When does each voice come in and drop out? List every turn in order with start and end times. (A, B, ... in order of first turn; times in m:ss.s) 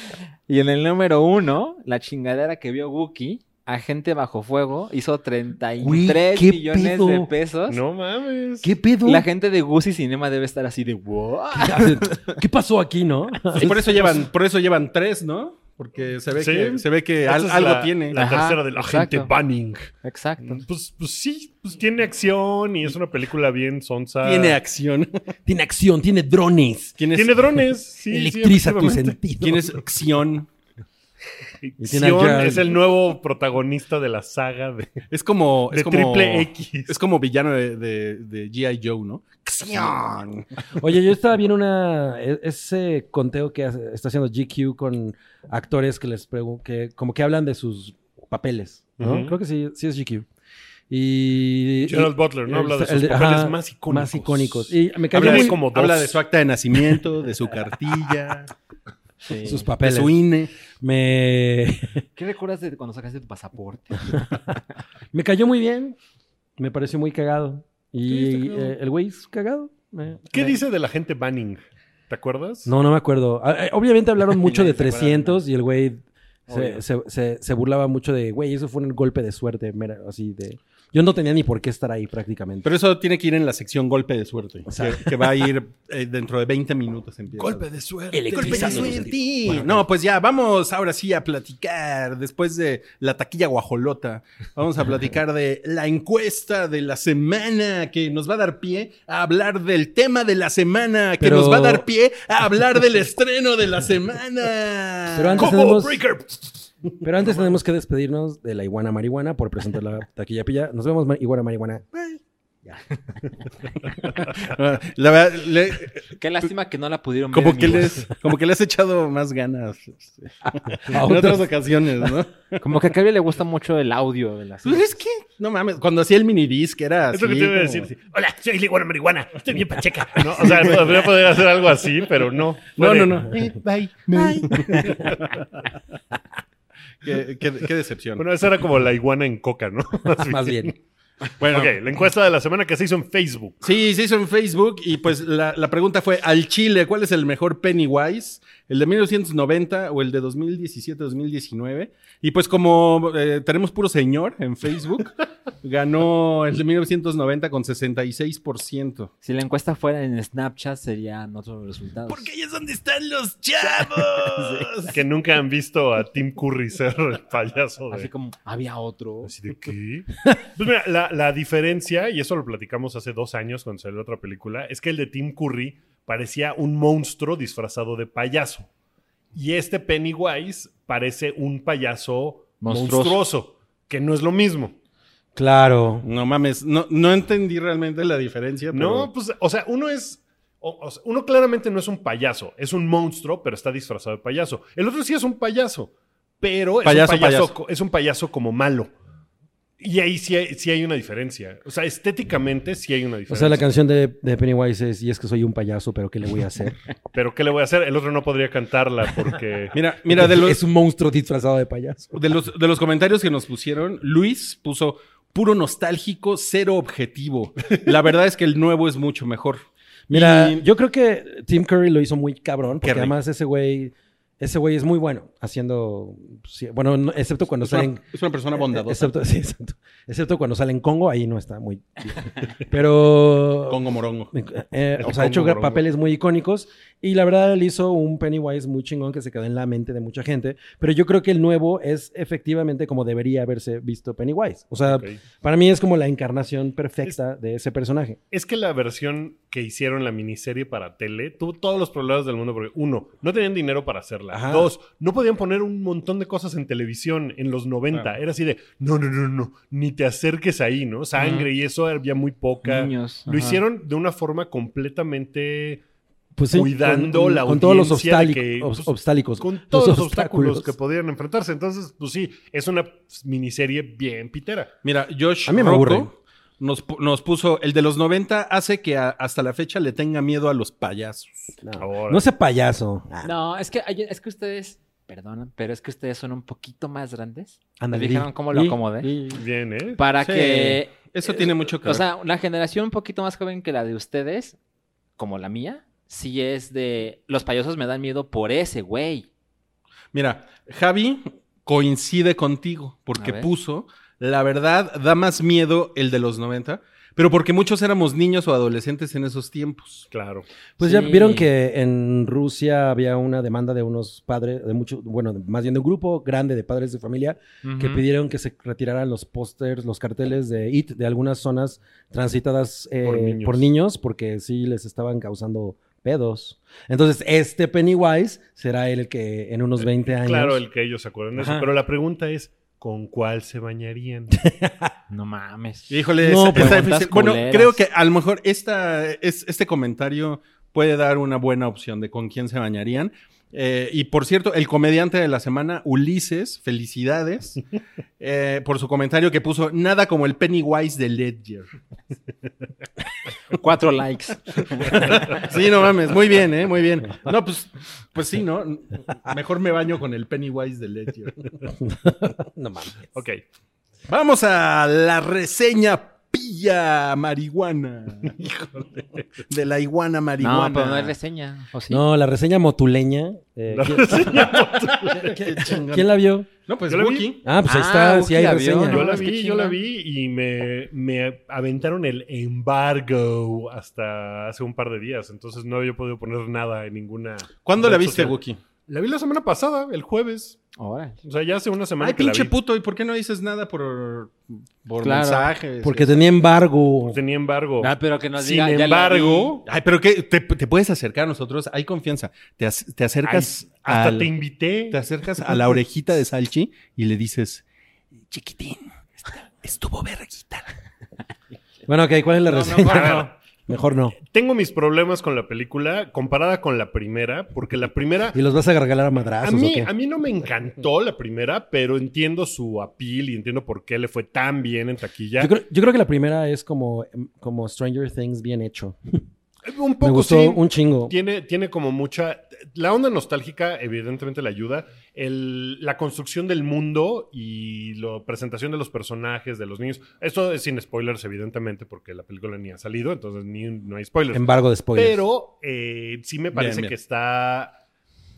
0:00.5-0:07.8 A
0:05.8-0:07.3 B
0:07.7-0:08.7 C
0:08.6-0:09.3 B
0:09.0-0:12.1 A
0:11.5-0:14.1 B
0:13.5-0:18.2 D
0:16.3-0:19.9 C
0:18.1-0:19.3 A
0:20.0-0:20.6 A
0:20.6-0:24.6 C
0:24.2-0:25.2 D
0:25.4-0:27.0 B
0:27.0-0:27.3 D
0:27.1-0:29.2 C
0:28.1-0:29.8 B
0:29.4-0:30.5 D
0:31.6-0:35.0 C
0:31.8-0:32.8 B
0:35.1-0:40.5 D
0:35.7-0:37.0 C
0:40.7-0:50.2 B
0:49.0-0:49.3 C
0:50.9-0:55.6 B
0:51.8-0:56.2 C
0:55.1-0:58.5 D
0:59.2-0:59.6 A
0:59.4-1:02.0 B
0:59.8-1:00.5 D
1:02.2-1:04.1 A
1:04.1-1:04.5 B
1:05.1-1:06.0 B
1:06.6-1:10.6 B
1:08.1-1:08.7 C
1:10.3-1:12.7 C
1:12.6-1:22.7 B
1:14.4-1:15.4 A
1:16.5-1:16.8 A
1:22.6-1:27.6 D
1:24.7-1:25.4 B
1:27.4-1:29.1 C
1:28.1-1:29.8 B
1:28.3-1:45.6 D
1:41.2-1:41.8 B
1:45.1-1:46.0 B
1:45.4-1:46.5 C
1:47.0-1:51.8 B
1:54.0-1:56.1 D
1:56.1-1:58.0 A
1:57.3-2:02.6 D
2:00.7-2:01.5 B
2:02.6-2:04.9 A
2:04.6-2:07.9 D
2:07.1-2:15.3 C
2:12.8-2:15.2 D
2:17.0-2:18.2 D
2:18.2-2:20.7 C
2:20.2-2:20.7 B
2:21.4-2:21.7 D
2:21.4-2:23.6 C
2:23.6-2:39.1 D
2:39.2-2:42.3 A
2:42.1-2:45.0 D
2:44.3-2:44.6 A
2:44.9-2:48.1 C
2:47.9-2:49.3 A
2:49.2-2:58.7 C
2:59.3-3:04.7 C
3:02.6-3:03.2 A
3:05.3-3:06.1 B
3:06.0-3:09.1 D
3:08.7-3:18.9 C
3:16.8-3:17.5 D
3:19.8-3:23.6 C
3:23.3-3:26.8 B
3:27.1-3:29.8 C
3:29.7-3:30.6 D
3:30.1-3:32.1 B
3:32.1-3:40.6 D
3:40.1-3:48.0 B
3:42.8-3:43.2 D
3:47.6-3:49.1 D
3:48.5-3:53.8 B
3:53.7-3:54.3 D
3:54.3-4:08.2 B
3:55.0-3:55.8 C
4:04.8-4:05.2 C
4:08.3-4:25.8 C
4:14.3-4:14.7 B
4:21.2-4:21.5 A
4:22.6-4:23.6 A
4:26.4-4:30.7 B
4:26.5-4:34.7 C
4:34.8-4:41.5 D
4:35.4-4:36.1 B
4:41.6-4:43.3 B
4:41.8-4:42.2 C
4:43.2-4:49.1 A
4:47.8-4:49.4 B
4:49.3-4:50.0 C
4:50.0-4:54.6 A
4:50.2-4:52.0 D
4:55.2-4:59.3 A
5:00.1-5:10.1 D
5:03.2-5:03.5 A
5:10.1-5:10.4 C
5:10.8-5:30.6 B
5:10.8-5:11.5 A
5:17.6-5:18.0 A
5:23.0-5:23.7 C
5:29.8-5:34.4 C
5:31.4-5:31.7 B
5:34.3-5:34.9 B
5:35.1-5:37.8 A
5:35.9-5:47.6 D
5:36.2-5:37.0 B
5:48.2-5:51.7 D
5:53.5-5:55.2 A
5:54.8-6:01.6 D
6:01.8-6:03.1 B
6:03.1-6:03.4 C
6:04.1-6:08.5 D
6:08.4-6:09.2 C
6:09.5-6:11.1 D
6:10.4-6:12.0 A
6:11.9-6:16.5 B
6:13.7-6:15.4 C
6:15.0-6:17.4 D
6:16.9-6:17.3 C
6:17.4-6:19.1 B
6:17.6-6:19.8 A
6:18.9-6:30.6 C
6:27.6-6:28.6 D
6:30.8-6:31.2 A
6:31.2-6:32.5 C
6:32.0-6:36.2 D
6:35.0-6:35.5 A
6:35.8-6:37.2 B
6:37.1-6:39.6 C
6:37.8-6:39.5 A
6:39.6-6:44.3 D
6:43.2-6:45.0 C
6:44.9-6:47.6 D
6:48.3-6:50.7 D
6:51.8-6:54.2 B
6:52.8-6:53.3 C
6:52.8-6:53.2 A
6:54.2-6:58.4 C
6:58.3-6:59.9 B
6:59.4-7:05.5 C
7:05.4-7:09.1 B
7:09.6-7:27.7 C
7:10.0-7:11.1 B
7:24.3-7:25.2 B
7:26.5-7:26.9 D